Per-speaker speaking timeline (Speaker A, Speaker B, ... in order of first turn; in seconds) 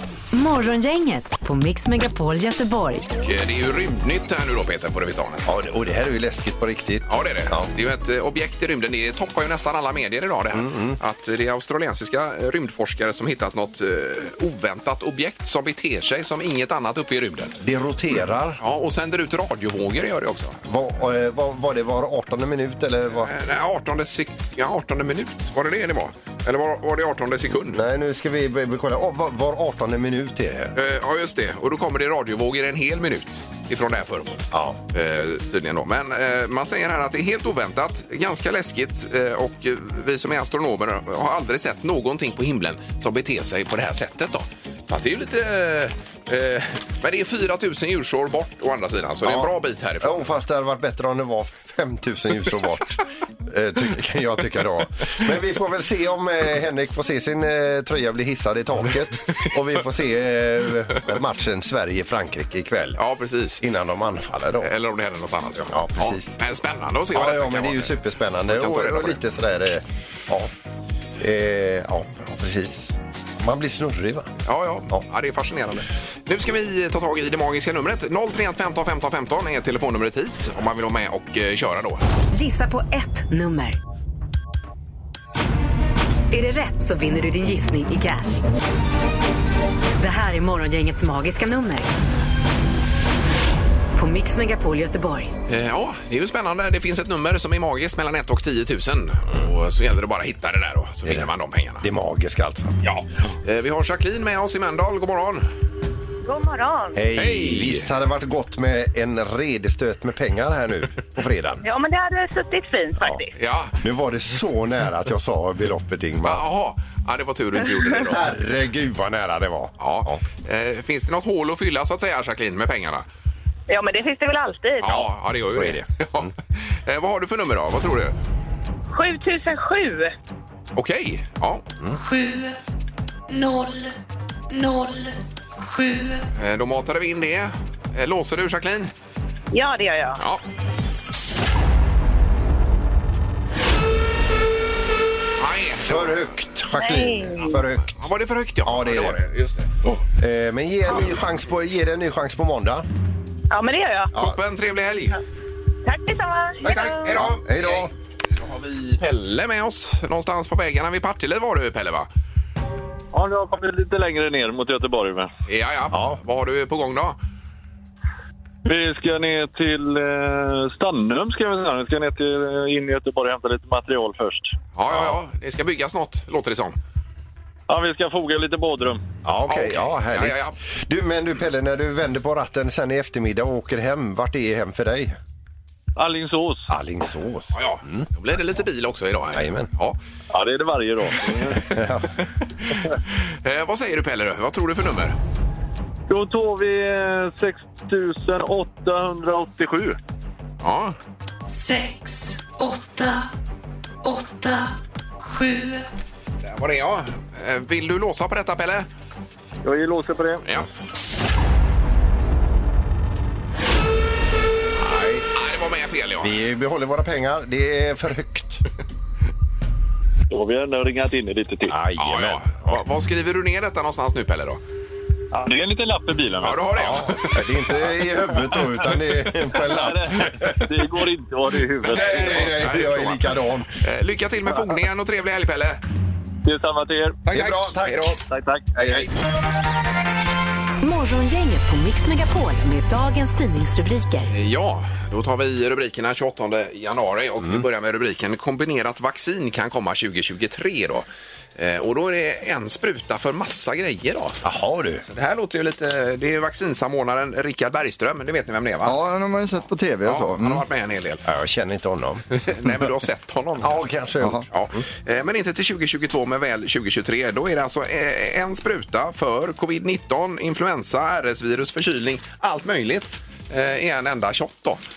Speaker A: 0.3-3.1, 82.3-83.8, 86.3-88.4, 90.0-91.9, 94.0-95.3, 240.8-244.3
Speaker B: 3.2-5.5, 7.1-17.6, 18.6-20.6, 23.2-27.8, 30.8-50.2, 63.0-63.6, 64.6-68.0, 68.5-69.2, 74.4-82.0, 95.5-101.8, 102.8-105.4, 107.1-107.9, 113.3-113.8, 116.2-118.3, 119.8-123.0, 124.8-128.1, 130.7-131.6, 136.3-138.9, 140.2-140.4, 145.4-146.2, 147.9-150.0, 154.1-155.2, 156.6-162.1, 165.5-167.2, 174.8-176.8, 179.5-180.6, 187.5-190.0, 193.2-195.2, 200.6-200.9, 206.4-208.9, 215.3-216.3, 222.0-224.6, 226.4-227.6, 231.8-235.8, 237.3-238.2, 238.7-239.1, 244.3-254.4, 255.1-259.0, 260.0-261.2, 262.3-263.8, 264.5-274.8
Speaker C: 5.5-7.7, 10.5-11.0, 17.6-18.6, 20.6-23.3, 27.7-30.7, 34.5-34.8, 49.2-63.0, 63.6-64.7, 65.7-66.4, 67.1-70.5, 71.2-74.3, 101.8-102.8, 106.9-111.6, 113.8-116.5, 118.0-120.2, 125.5-126.3, 145.8-148.0, 148.6-149.2, 150.2-152.8, 157.1-157.9, 165.9-166.2, 174.9-175.2, 179.2-185.2, 186.7-188.0, 189.3-189.7, 191.7-192.1, 214.8-215.2, 216.2-218.6, 221.7-222.8, 226.7-230.6, 231.9-233.7, 237.3-238.2, 254.4-255.0, 261.2-262.8, 263.6-264.4
Speaker D: 106.2-107.0, 111.6-113.3, 123.7-124.8, 128.9-130.1, 139.5-140.2, 146.8-147.5, 153.5-154.1, 155.8-157.1
Speaker E: 131.9-132.6, 133.3-133.9, 134.5-136.2, 201.5-203.3, 204.0-205.9
Speaker F: 163.1-165.3, 168.6-174.5, 177.7-179.0, 185.9-186.7, 190.3-191.7, 196.1-200.0, 209.6-210.5, 220.3-221.7, 225.3-226.7, 229.6-232.5, 236.4-237.2, 238.3-239.1
Speaker G: 258.8-260.6, 264.2-264.4